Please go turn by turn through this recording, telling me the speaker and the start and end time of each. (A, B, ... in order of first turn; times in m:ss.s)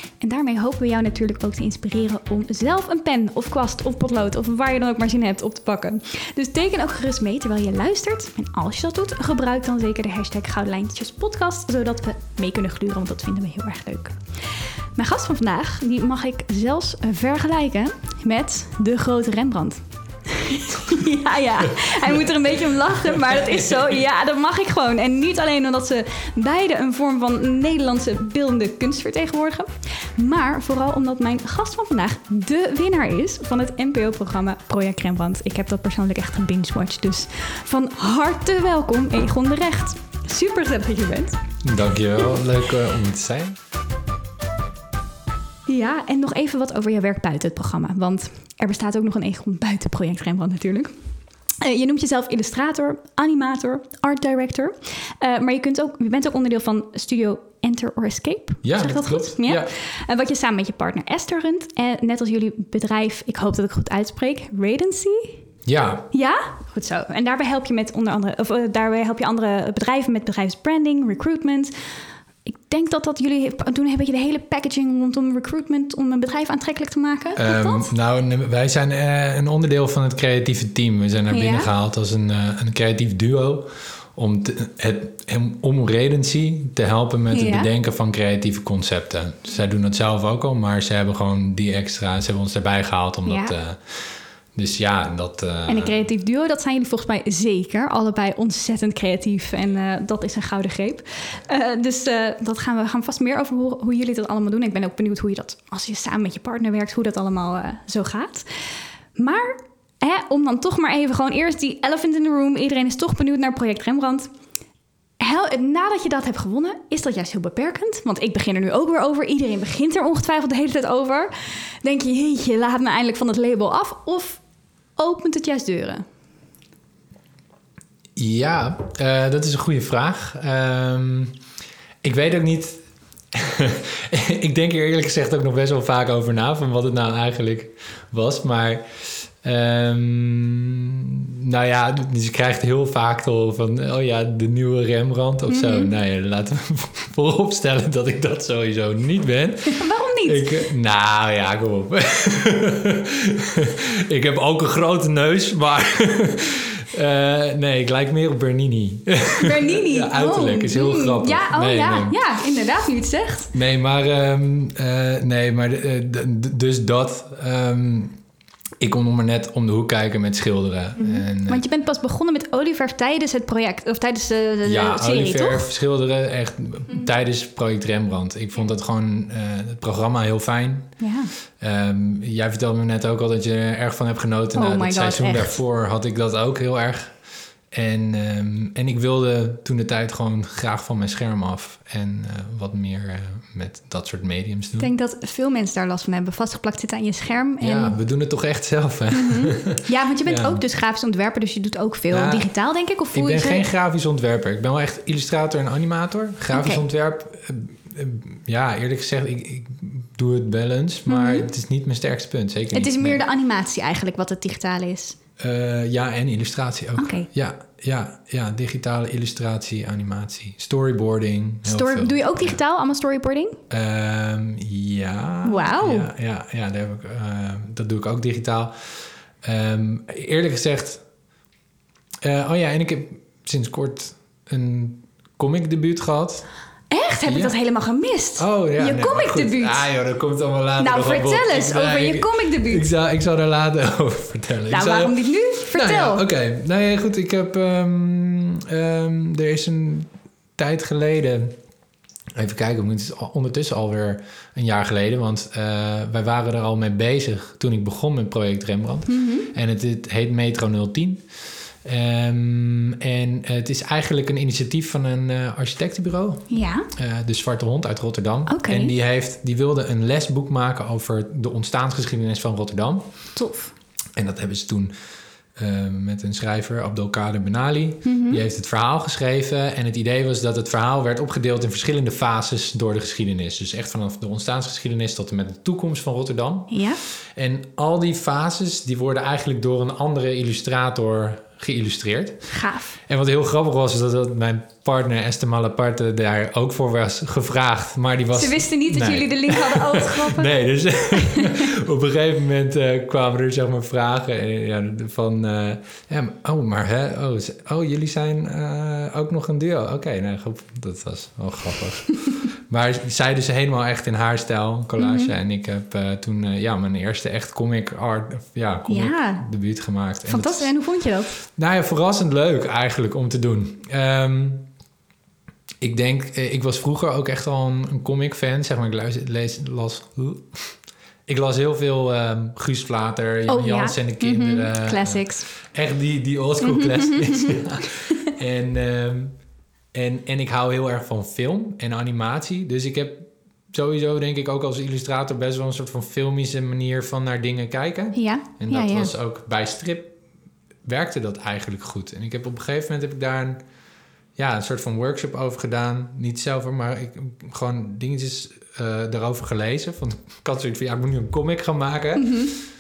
0:00.2-0:14.2 A
0:15.0-0:41.4 A
0:23.2-0:24.0 B
0:41.6-0:43.6 B
0:45.7-0:50.9 A
0:51.6-1:05.4 A
0:58.6-0:59.7 B
1:05.7-1:06.0 B
1:06.1-1:11.7 A
1:12.5-1:17.9 A
1:17.4-1:36.0 B
1:21.3-1:21.7 A
1:27.3-1:27.7 A
1:33.3-1:33.6 A
1:35.7-1:54.3 A
1:55.2-2:04.4 A
2:05.0-2:06.0 A
2:08.2-2:11.4 B
2:12.0-2:12.8 B
2:13.3-2:42.2 B
2:25.5-2:25.9 A
2:29.7-2:30.6 A
2:39.4-2:43.5 A
2:43.5-2:48.2 B
2:48.8-2:51.6 B
2:51.0-2:55.7 A
2:54.6-3:00.9 B
3:01.0-3:01.3 A
3:01.6-3:07.2 B
3:04.6-3:05.5 A
3:07.7-3:14.9 B
3:14.8-3:18.0 A
3:17.6-3:20.6 B
3:19.1-3:23.7 A
3:22.1-3:22.5 B
3:23.1-3:33.2 B
3:26.5-3:26.8 A
3:31.1-3:31.5 A
3:32.7-3:35.2 A
3:35.4-3:42.6 B
3:37.0-3:37.3 A
3:41.7-3:43.6 A
3:43.7-3:51.0 B
3:45.4-3:46.1 A
3:52.2-3:56.5 B
3:56.9-3:59.9 A
3:57.3-3:57.5 B
3:58.4-4:11.6 B
4:00.8-4:02.9 A
4:04.7-4:06.2 A
4:12.4-4:21.3 B
4:19.1-4:19.5 A
4:21.8-4:33.1 B
4:26.5-4:26.9 A
4:28.5-4:28.9 A
4:33.4-4:33.7 A
4:34.2-4:34.9 B
4:35.6-4:52.5 B
4:38.0-4:38.4 A
4:46.7-4:47.0 A
4:52.5-4:53.0 A
4:53.1-5:20.7 B
4:58.4-5:00.5 A
5:01.2-5:01.6 A
5:15.0-5:15.3 A
5:18.9-5:19.4 A
5:20.3-5:21.4 A
5:21.4-5:24.7 B
5:25.8-5:30.8 B
5:31.3-5:39.4 B
5:33.5-5:35.5 A
5:36.6-5:38.3 A
5:39.9-5:50.2 B
5:48.1-5:49.1 A
5:50.8-5:53.6 B
5:54.4-6:02.4 B
6:02.2-6:02.6 A